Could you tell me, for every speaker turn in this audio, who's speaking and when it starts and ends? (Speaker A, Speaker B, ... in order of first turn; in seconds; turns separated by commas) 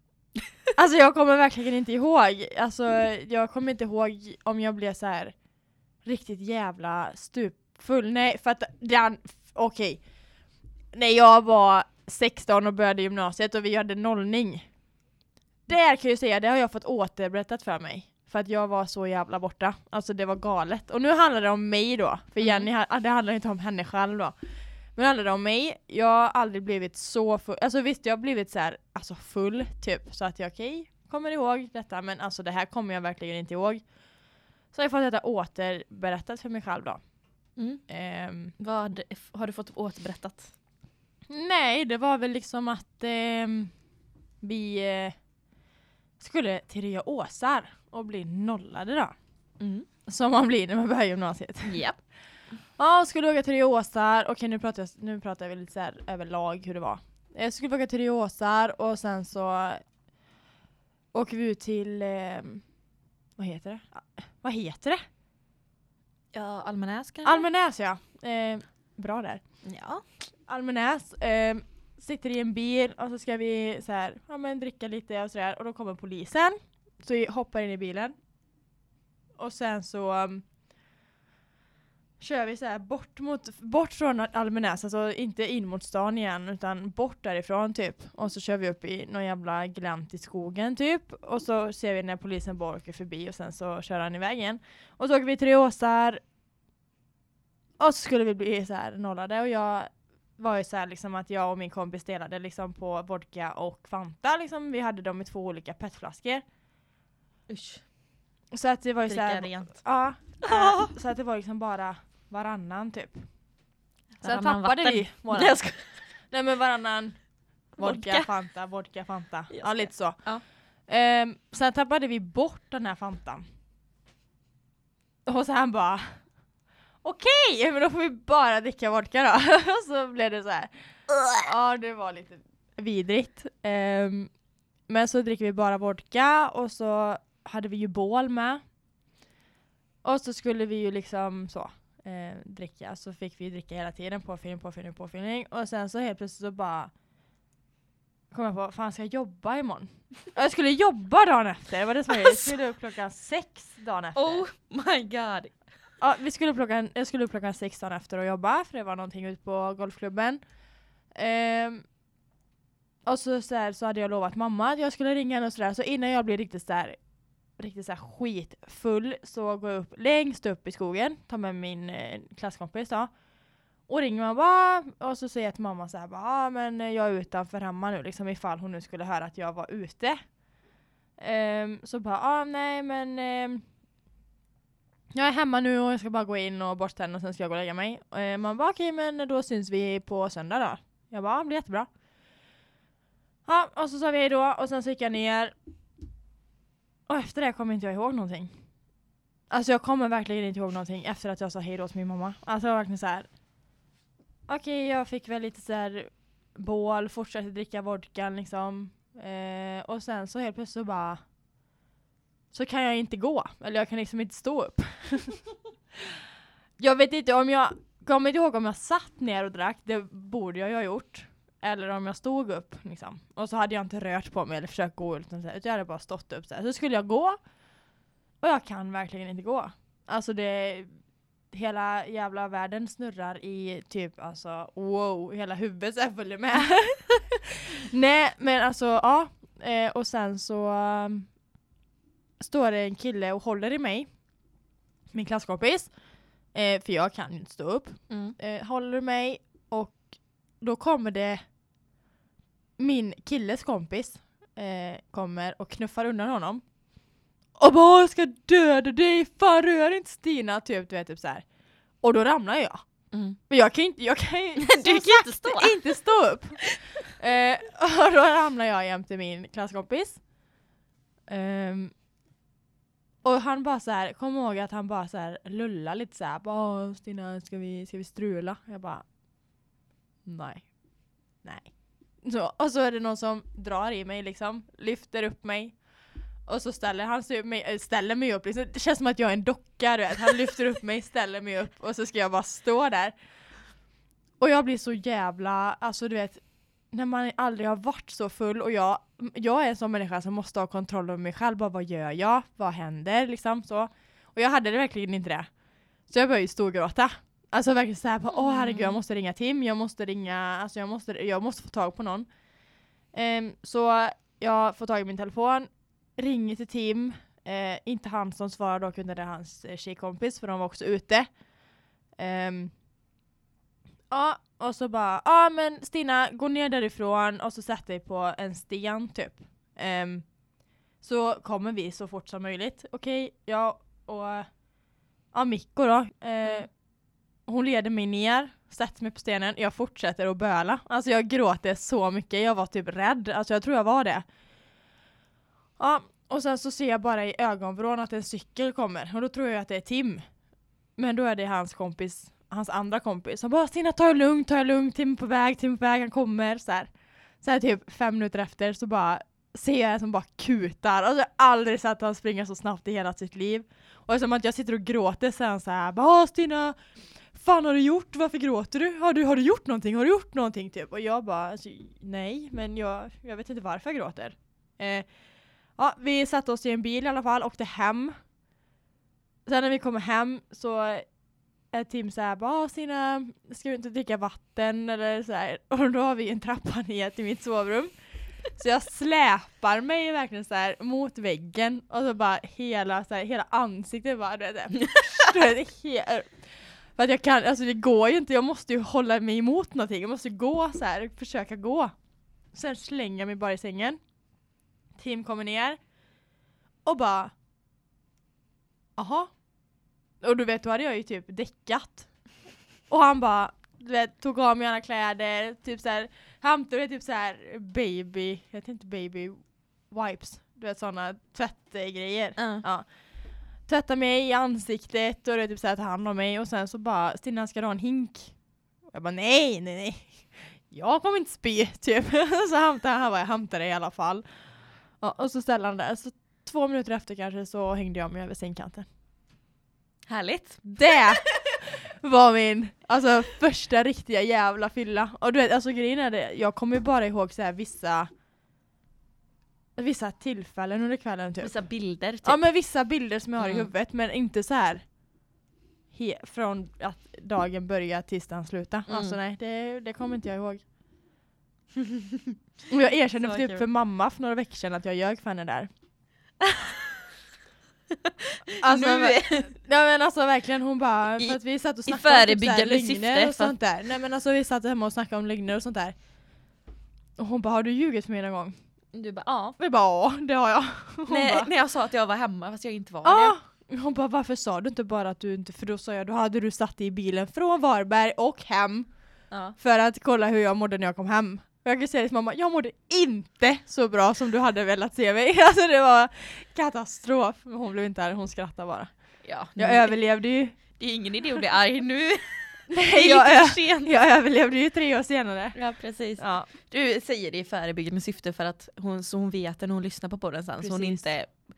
Speaker A: 0.7-5.3, Speaker A: 6.0-10.0, Speaker A: 10.9-14.7, Speaker A: 15.7-24.3, Speaker B: 22.4-22.7, Speaker A: 24.9-33.8, Speaker A: 34.7-37.0, Speaker B: 37.6-37.8, Speaker A: 37.9-38.5, Speaker B: 38.6-40.5, Speaker A: 41.3-43.7, Speaker A: 44.4-45.1, Speaker A: 46.2-49.1, Speaker B: 49.6-49.9, Speaker A: 50.1-51.8, Speaker B: 51.6-52.0, Speaker A: 52.8-59.8, Speaker A: 61.1-62.6, Speaker A: 63.4-65.0, Speaker B: 66.3-67.5, Speaker A: 67.2-69.4, Speaker B: 69.6-70.0, Speaker A: 70.5-78.1, Speaker A: 79.4-80.4, Speaker A: 82.2-96.2, Speaker A: 97.8-106.4, Speaker B: 107.5-107.8, Speaker A: 108.5-113.2, Speaker B: 109.1-109.8, Speaker B: 110.4-110.9, Speaker B: 114.2-115.8, Speaker A: 114.2-115.6, Speaker A: 116.3-117.2, Speaker A: 117.8-120.2, Speaker B: 117.8-118.3, Speaker B: 119.5-120.4, Speaker A: 120.9-123.4, Speaker A: 125.2-126.2, Speaker A: 127.0-130.7, Speaker A: 131.3-134.3, Speaker A: 134.9-138.6, Speaker A: 140.0-146.9, Speaker A: 148.3-154.4, Speaker B: 152.1-152.6, Speaker B: 154.1-155.5, Speaker A: 156.0-160.4, Speaker A: 161.1-161.8, Speaker A: 163.1-167.0, Speaker A: 167.6-173.1, Speaker A: 173.9-180.2, Speaker A: 181.2-183.6, Speaker A: 185.1-191.9, Speaker A: 193.4-195.5, Speaker A: 197.1-198.5, Speaker A: 199.5-203.3, Speaker A: 204.5-211.2, Speaker A: 212.5-215.4, Speaker A: 216.8-227.4, Speaker A: 228.4-230.9, Speaker A: 231.5-241.3, Speaker A: 242.4-244.1, Speaker A: 245.1-245.9, Speaker A: 246.5-250.1, Speaker B: 248.1-248.3, Speaker A: 250.6-251.4, Speaker A: 252.8-256.6, Speaker A: 257.6-261.4, Speaker A: 262.0-262.8, Speaker B: 263.1-263.4, Speaker A: 263.5-270.2, Speaker B: 264.6-265.8, Speaker A: 271.3-271.9, Speaker A: 273.2-279.0, Speaker A: 280.2-280.7, Speaker A: 281.4-285.8, Speaker A: 286.5-293.1, Speaker A: 294.4-305.5, Speaker A: 306.1-312.3, Speaker B: 308.3-309.0, Speaker A: 313.1-321.3, Speaker A: 322.2-322.7, Speaker A: 324.1-330.2, Speaker A: 331.0-334.5, Speaker A: 335.3-336.7, Speaker A: 337.5-344.2, Speaker A: 345.8-350.2, Speaker A: 351.0-356.9, Speaker A: 357.4-366.8, Speaker A: 367.3-375.1, Speaker A: 375.8-378.1, Speaker A: 379.4-381.0, Speaker A: 381.7-387.9, Speaker A: 388.5-396.4, Speaker A: 396.9-401.9, Speaker A: 402.5-404.0, Speaker A: 405.0-405.8, Speaker A: 406.9-407.3, Speaker A: 409.0-409.3, Speaker A: 410.2-412.1, Speaker A: 412.9-422.9, Speaker B: 422.4-422.6, Speaker A: 423.7-428.3, Speaker A: 428.9-434.2, Speaker A: 435.0-438.9, Speaker B: 440.1-441.6, Speaker A: 440.8-448.1, Speaker A: 449.8-451.5, Speaker B: 451.4-452.4, Speaker A: 452.2-454.8, Speaker B: 453.4-453.7, Speaker A: 455.9-460.6, Speaker B: 458.9-459.2, Speaker B: 461.8-462.3, Speaker A: 462.7-465.7, Speaker B: 463.2-463.6, Speaker B: 466.4-467.0, Speaker B: 467.9-469.5, Speaker A: 468.6-475.9, Speaker B: 471.2-473.5, Speaker A: 477.2-478.5, Speaker B: 478.9-479.6, Speaker A: 479.6-481.5, Speaker B: 481.1-483.4, Speaker A: 483.0-488.9, Speaker B: 489.3-489.6, Speaker A: 489.6-498.9, Speaker B: 499.2-500.0, Speaker A: 499.6-500.6, Speaker B: 500.8-503.9, Speaker A: 502.7-505.6, Speaker B: 505.5-511.3, Speaker A: 506.2-506.5, Speaker A: 510.6-511.1